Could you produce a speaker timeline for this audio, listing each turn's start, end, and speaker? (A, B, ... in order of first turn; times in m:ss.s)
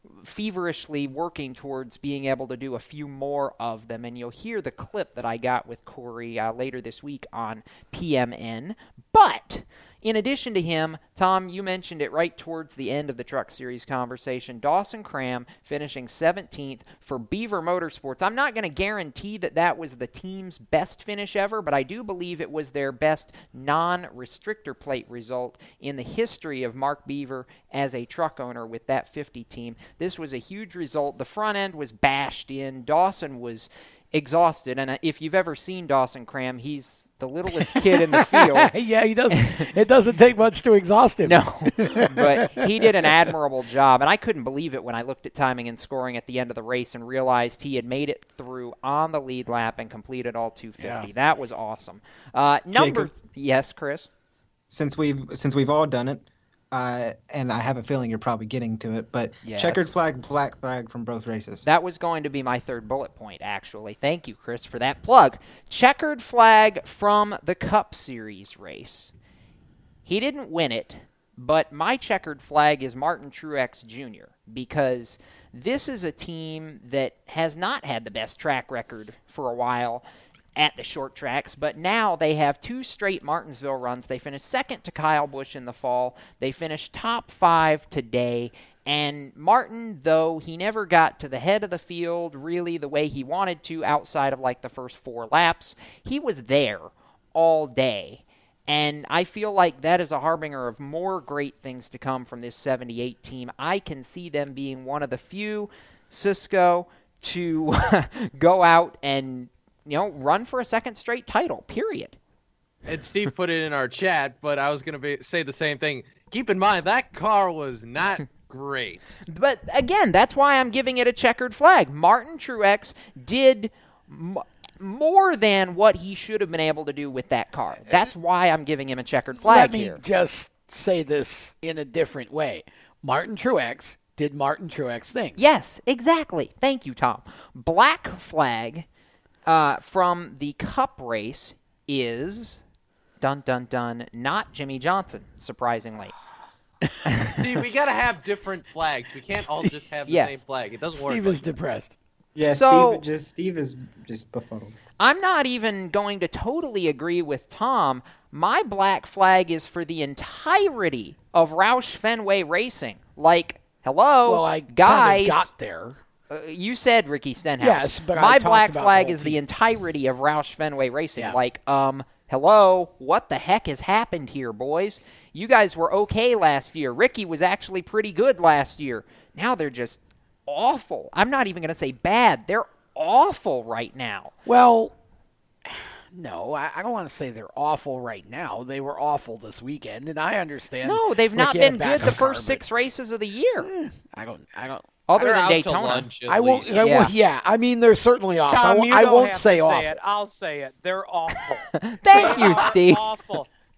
0:00.2-0:38.7 A
0:37.9-0:43.1 B
0:39.3-0:39.6 A
0:41.2-0:54.1 A
0:50.8-0:51.1 B
0:52.7-0:53.2 C
0:54.7-1:01.6 C
0:59.4-0:59.8 A
1:01.6-1:09.1 A
1:10.0-1:20.0 A
1:20.6-1:52.2 A
1:52.8-1:59.2 D
1:59.3-2:10.0 A
2:09.4-2:15.4 B
2:15.4-2:18.8 A
2:19.4-2:22.6 A
2:23.2-2:26.1 A
2:27.4-2:31.5 D
2:29.3-2:29.7 B
2:30.1-2:30.3 A
2:30.9-2:31.9 B
2:32.4-2:34.8 C
2:32.4-2:33.0 A
2:35.0-2:45.5 A
2:44.2-2:46.0 B
2:46.3-3:04.3 A
2:47.6-2:49.4 B
3:04.4-3:04.9 B
3:05.6-3:12.6 B
3:10.8-3:13.7 A
3:13.6-3:15.0 B
3:15.1-3:16.1 A
3:15.2-3:16.9 D
3:16.3-3:20.0 B
3:16.7-3:17.1 A
3:18.4-3:23.5 E
3:21.8-3:23.0 A
3:22.2-3:22.6 D